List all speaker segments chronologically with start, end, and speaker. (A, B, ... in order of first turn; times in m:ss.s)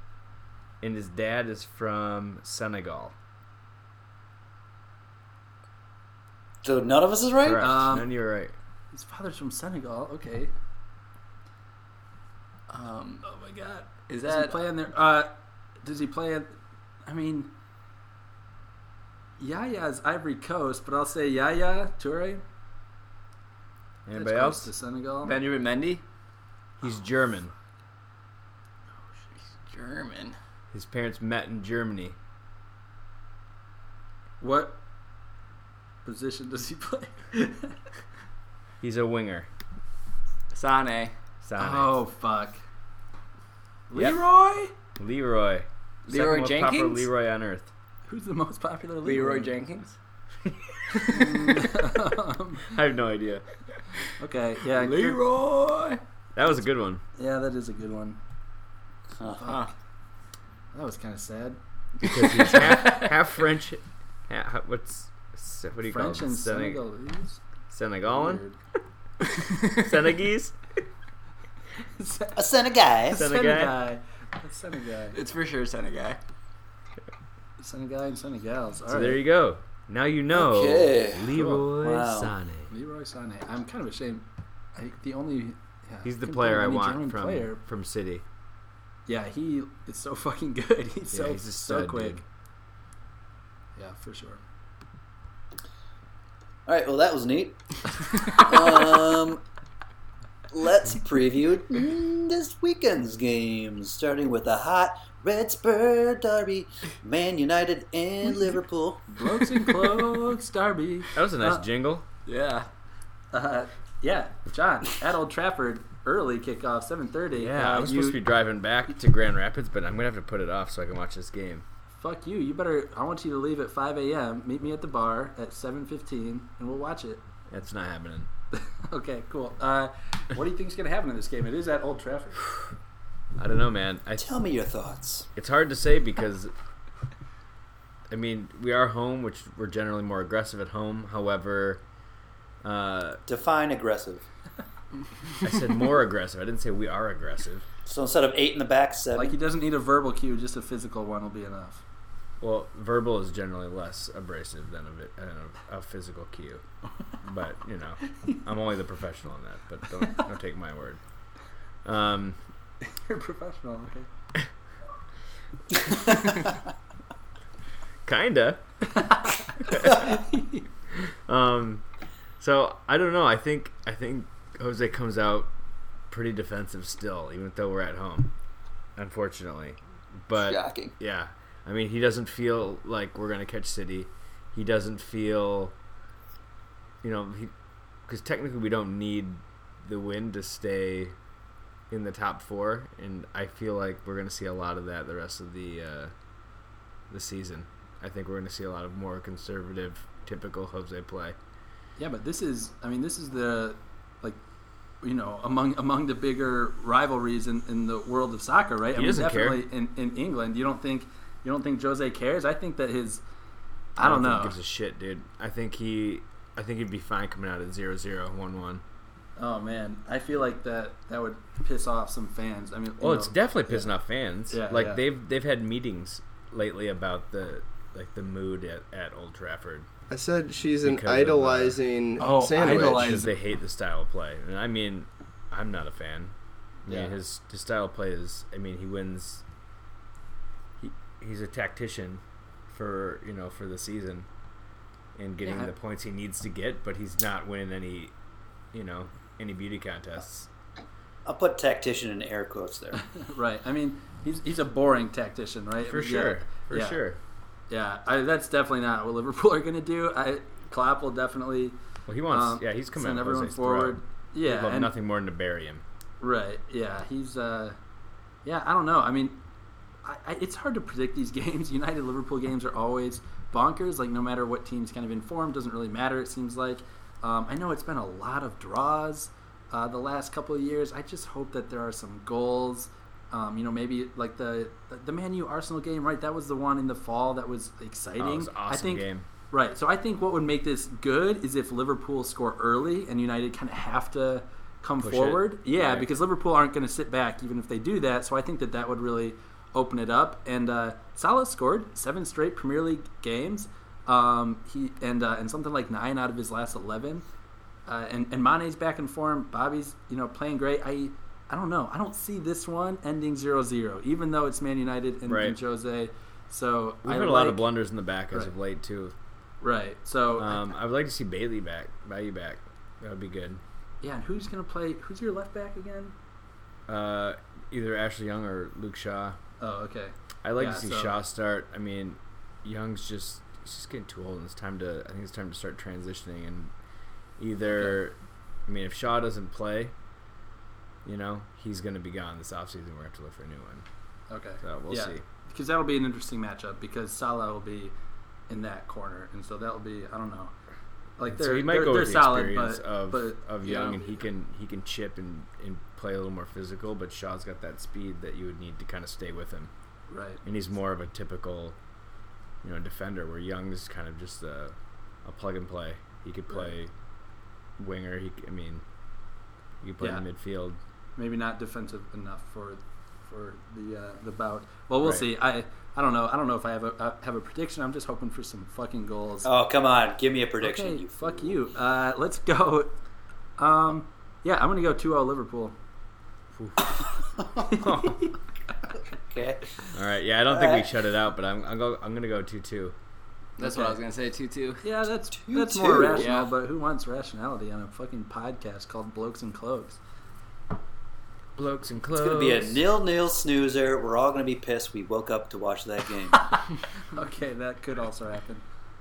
0:00.8-0:03.1 A
0:06.6-0:07.6 B
0:07.4-0:08.5 A
0:07.6-0:08.1 C
0:08.9-0:10.5 C
0:12.7-0:13.2 D
0:13.2-0:15.3 C
0:14.1-0:14.6 D
0:15.8-0:16.5 C
0:17.0-0:17.5 C
0:19.4-0:22.4 C
0:24.0-0:24.7 A
0:24.1-0:25.4 C
0:25.2-0:26.0 D
0:26.8-0:27.5 A
0:29.4-0:30.4 D
0:30.7-0:32.2 A
0:34.4-0:34.8 C
0:36.0-0:37.8 C
0:38.8-0:39.5 A
0:40.5-0:41.1 D
0:41.4-0:42.0 A
0:41.6-0:42.6 C
0:43.9-0:44.7 C
0:45.0-0:47.7 A
0:46.1-0:47.1 D
0:48.1-0:49.6 C
0:49.0-0:49.9 D
0:50.4-0:50.7 A
0:50.9-0:52.7 C
0:51.1-0:51.7 D
0:52.7-0:53.4 A
0:54.2-0:55.2 C
0:54.7-0:56.0 D
0:56.3-0:57.0 A
0:57.2-0:58.2 C
0:59.2-0:59.6 B
0:59.4-0:59.6 C
0:59.4-0:59.7 D
1:00.7-1:01.6 C
1:02.0-1:06.8 A
1:05.8-1:07.4 C
1:07.7-1:08.4 A
1:08.0-1:08.6 C
1:09.6-1:10.6 A
1:12.0-1:12.5 C
1:12.4-1:13.2 B
1:13.0-1:15.2 C
1:13.1-1:13.7 A
1:15.1-1:16.2 D
1:17.6-1:19.2 C
1:18.9-1:22.7 A
1:20.3-1:22.3 B
1:21.3-1:21.7 C
1:22.7-1:27.6 C
1:26.0-1:28.2 A
1:29.1-1:32.2 C
1:31.1-1:32.2 A
1:33.8-1:34.4 C
1:36.6-1:39.4 B
1:40.5-1:49.0 B
1:49.1-1:51.6 C
1:51.1-1:52.0 A
1:52.2-1:52.7 D
1:53.3-1:58.2 C
1:57.3-2:01.6 A
2:02.0-2:07.2 C
2:07.5-2:08.3 A
2:08.5-2:12.5 C
2:13.4-2:14.3 A
2:14.2-2:15.3 B
2:15.4-2:16.5 A
2:18.1-2:21.8 A
2:22.6-2:23.2 A
2:23.3-2:24.2 B
2:25.4-2:27.6 A
2:27.8-2:29.4 B
2:29.1-2:31.8 C
2:32.4-2:36.6 A
2:37.2-2:41.0 A
2:41.8-2:42.4 A
2:42.8-2:44.1 C
2:48.0-2:48.6 A
2:48.9-2:50.6 C
2:49.6-2:50.1 A
2:51.0-2:51.8 A
2:52.4-2:55.5 A
2:56.1-2:58.3 A
2:59.0-3:05.7 A
3:00.4-3:00.9 B
3:07.0-3:07.5 A
3:08.0-3:11.2 A
3:11.9-3:16.1 A
3:17.1-3:21.4 A
3:22.0-3:24.4 C
3:25.0-3:33.2 C
3:28.9-3:29.6 A
3:34.0-3:34.6 C
3:34.0-3:38.8 A
3:39.4-3:43.9 C
3:43.0-3:49.9 A
3:44.5-3:45.0 C
3:50.1-3:53.3 E
3:50.8-3:51.8 A
3:52.2-3:53.3 C
3:52.5-3:56.3 A
3:56.8-3:59.4 A
4:00.8-4:04.3 A
4:05.1-4:08.1 A
4:05.4-4:05.7 C
4:08.7-4:10.5 A
4:11.2-4:13.0 B
4:13.0-4:17.0 C
4:15.8-4:17.2 A
4:17.7-4:21.8 C
4:22.1-4:25.8 A
4:22.3-4:24.9 C
4:26.2-4:27.8 C
4:28.4-4:29.4 C
4:30.0-5:07.2 C
4:48.2-4:49.3 A
4:55.0-4:56.1 A
5:07.8-5:17.7 C
5:15.3-5:15.6 A
5:17.0-5:19.1 A
5:19.6-5:20.6 C
5:20.4-5:23.6 A
5:24.0-5:26.1 C
5:26.9-5:29.4 A
5:29.6-5:31.2 C
5:30.4-5:36.7 A
5:37.4-5:39.9 A
5:37.7-5:38.0 C
5:41.0-5:43.8 A
5:44.3-5:47.9 C
5:44.6-5:45.2 A
5:48.5-5:50.5 C
5:51.2-5:54.0 C
5:51.3-5:59.7 A
6:00.1-6:00.4 C
6:00.4-6:01.8 A
6:02.6-6:06.9 A
6:07.8-6:08.8 A
6:09.8-6:10.8 A
6:10.0-6:10.2 C
6:11.2-6:19.5 C
6:15.0-6:15.3 A
6:19.4-6:21.6 B
6:20.6-6:23.0 C
6:23.6-6:25.8 C
6:26.6-6:27.0 A
6:27.0-6:27.8 B
6:27.7-6:28.4 C
6:27.7-6:28.3 A
6:29.1-6:29.9 B
6:29.9-6:32.9 A
6:30.5-6:30.9 B
6:33.6-6:34.0 C
6:33.6-6:34.8 D
6:34.8-6:40.0 C
6:35.3-6:36.3 B
6:36.0-6:36.5 D
6:41.6-6:42.8 A
6:42.1-6:46.6 B
6:47.1-6:48.6 C